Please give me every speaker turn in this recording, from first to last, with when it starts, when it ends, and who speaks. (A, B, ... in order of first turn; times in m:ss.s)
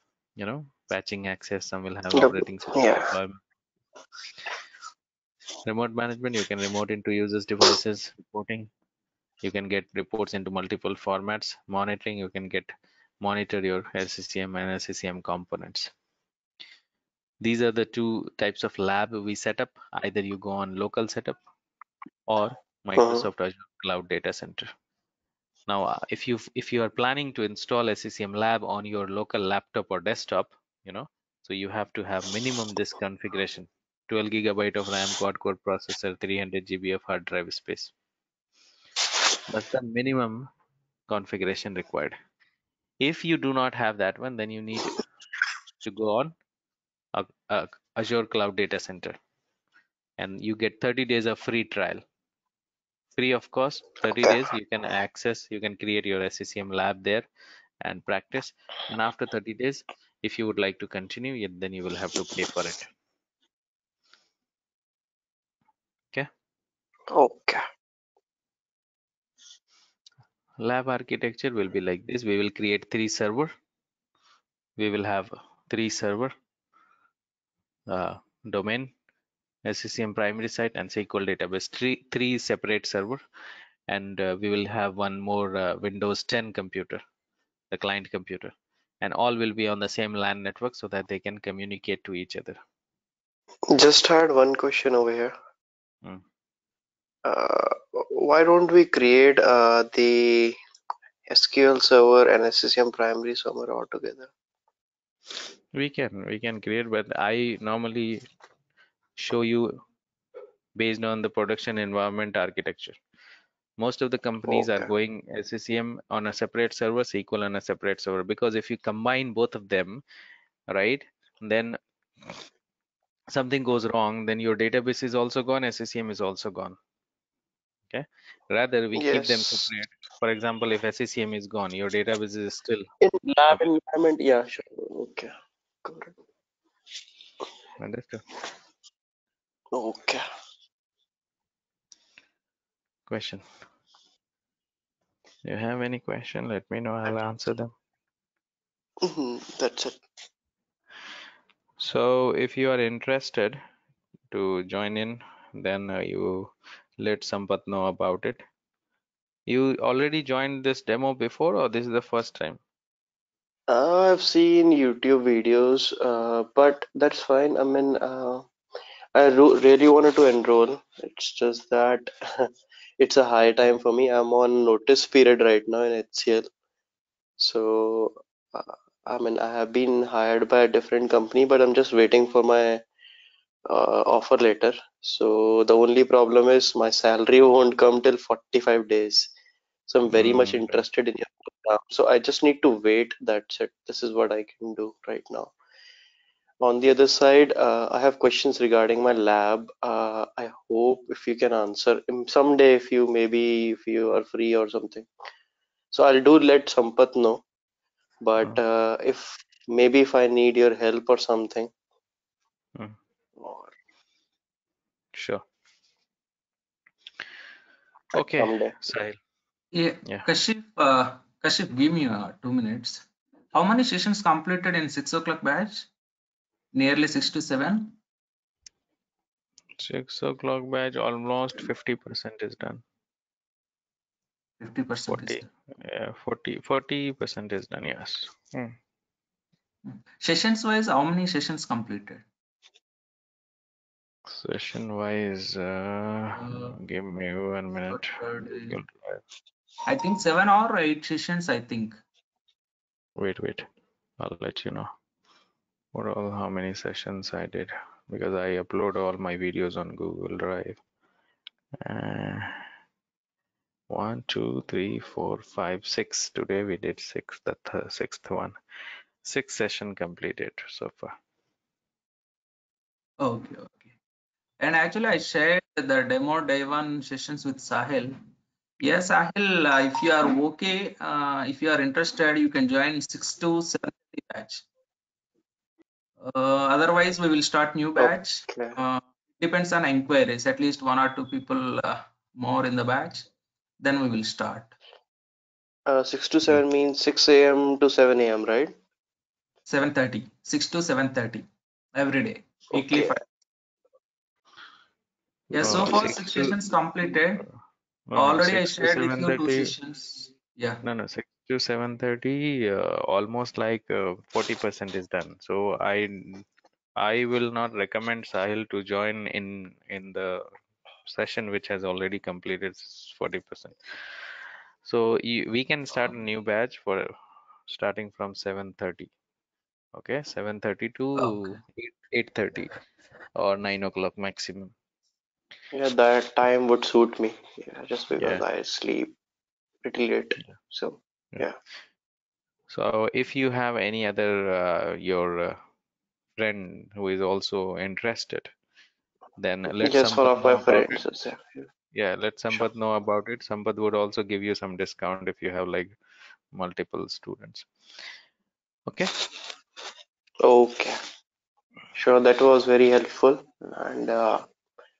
0:00.4-0:03.4 A
0:02.1-0:03.2 B
0:05.6-0:08.7 A
0:09.4-0:15.9 A
0:17.4-0:21.4 A
0:22.3-0:24.7 A
0:23.0-0:23.2 B
0:25.7-0:37.9 A
0:39.5-0:40.5 A
0:41.1-0:42.1 A
0:43.0-0:45.0 A
0:45.8-0:46.3 A
0:47.1-0:49.1 A
0:50.2-0:52.0 A
0:53.2-0:57.2 A
0:57.8-1:02.9 A
1:07.1-1:07.6 B
1:10.6-1:13.5 A
1:14.8-1:16.3 A
1:17.9-1:18.9 A
1:19.6-1:23.2 A
1:23.9-1:27.0 A
1:27.7-1:32.6 A
1:33.7-1:35.3 B
1:37.2-1:40.6 B
1:41.3-1:44.3 B
1:45.7-1:48.2 A
1:49.2-1:49.7 A
1:50.8-1:53.0 A
1:53.8-2:00.0 A
1:54.4-1:54.9 B
2:00.7-2:01.8 A
2:03.3-2:06.8 A
2:07.9-2:12.8 A
2:08.9-2:09.7 B
2:13.0-2:15.3 B
2:15.8-2:16.1 B
2:17.8-2:18.2 A
2:19.7-2:20.2 B
2:23.1-2:23.4 A
2:25.4-2:27.7 A
2:29.0-2:30.0 B
2:31.8-2:33.6 A
2:34.3-2:38.4 A
2:39.5-2:42.6 A
2:43.7-2:48.5 B
2:49.1-2:56.5 B
2:57.4-3:02.8 B
3:03.6-3:09.3 B
3:09.9-3:15.5 B
3:10.1-3:10.8 A
3:16.6-3:25.1 B
3:25.9-3:27.4 B
3:28.2-3:31.7 B
3:33.4-3:33.7 B
3:35.1-3:35.4 A
3:38.1-3:39.2 A
3:38.1-3:38.8 B
3:39.7-3:45.9 C
3:46.7-3:48.0 C
3:49.8-3:52.8 A
3:54.6-3:55.5 C
3:55.1-3:58.7 A
3:59.9-4:02.2 C
4:04.3-4:09.2 A
4:06.4-4:06.8 C
4:07.9-4:08.8 C
4:09.8-4:12.0 C
4:13.2-4:13.7 A
4:14.2-4:14.9 A
4:15.9-4:20.8 A
4:21.8-4:22.6 A
4:23.9-4:28.5 A
4:29.2-4:31.1 A
4:33.2-4:33.9 C
4:34.6-4:38.1 C
4:38.8-4:44.6 C
4:46.2-4:53.3 C
4:48.0-4:48.8 B
4:53.8-4:54.7 C
4:55.8-4:58.7 B
4:59.7-5:03.2 C
5:02.7-5:03.2 B
5:05.5-5:07.4 C
5:05.6-5:06.5 A
5:05.6-5:06.1 B
5:08.1-5:09.7 A
5:08.2-5:10.8 C
5:10.8-5:16.4 A
5:17.0-5:20.4 A
5:21.0-5:23.8 A
5:24.8-5:27.1 A
5:27.7-5:29.1 A
5:29.9-5:32.7 A
5:31.2-5:31.6 C
5:33.4-5:34.7 A
5:35.7-5:39.1 B
5:38.2-5:38.4 A
5:39.8-5:41.6 B
5:42.7-5:45.6 A
5:46.4-5:48.5 A
5:49.4-5:51.0 A
5:49.8-5:51.7 B
5:51.9-5:56.0 A
5:56.5-5:57.7 A
5:58.9-5:59.3 A
6:00.4-6:01.0 B
6:01.9-6:04.4 B